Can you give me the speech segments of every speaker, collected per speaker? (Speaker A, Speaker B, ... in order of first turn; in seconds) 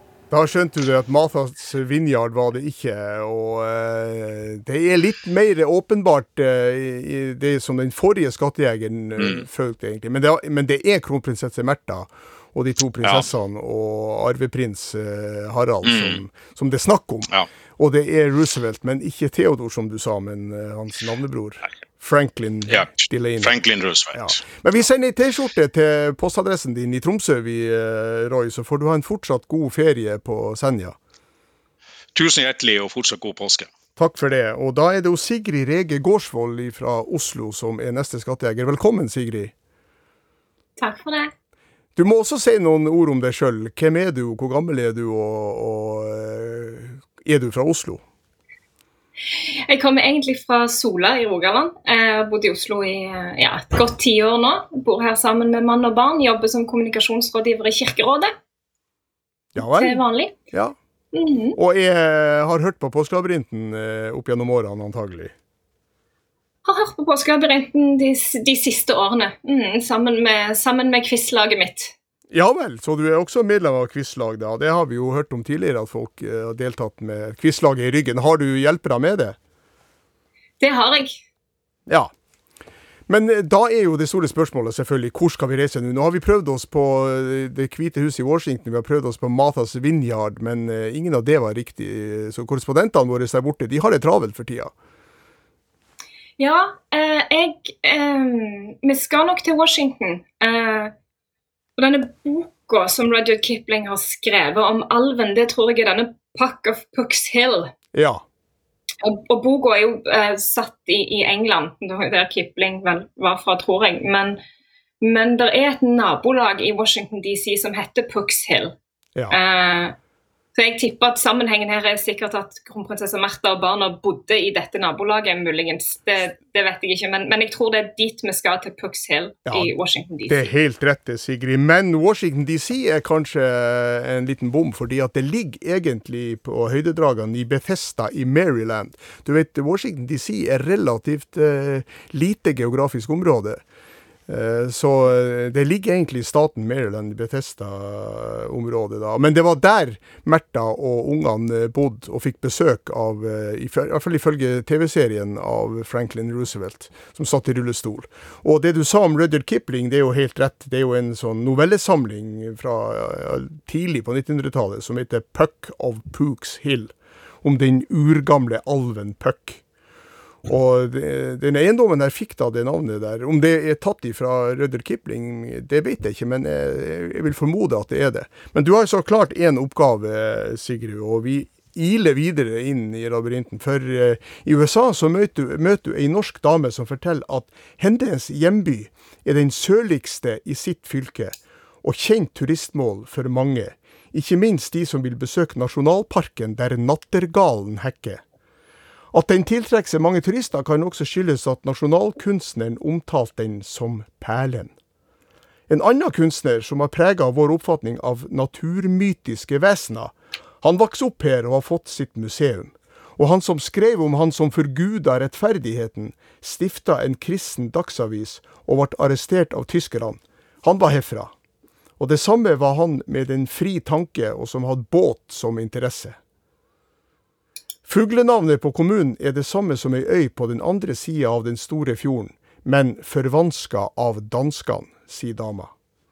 Speaker A: 0.3-23.5, 24.1-30.9, 34.0-39.5, 42.0-48.0, 59.5-60.8, 61.5-65.3, 72.3-79.4, 83.1-94.7, 107.9-108.2, 129.4-129.7, 130.3-143.6, 144.3-169.6, 170.4-198.2, 199.1-204.7, 205.7-221.3, 222.0-226.2, 227.9-235.7
Speaker B: 9.2-9.4, 13.0-13.3, 15.8-16.2, 22.7-24.4, 32.1-33.7
Speaker C: 40.8-41.3, 49.6-58.3, 59.6-60.4, 61.1-61.6, 66.7-71.9, 80.6-81.2, 96.4-100.9, 101.8-107.7, 109.0-114.4, 115.0-118.8, 119.3-120.0, 120.5-130.5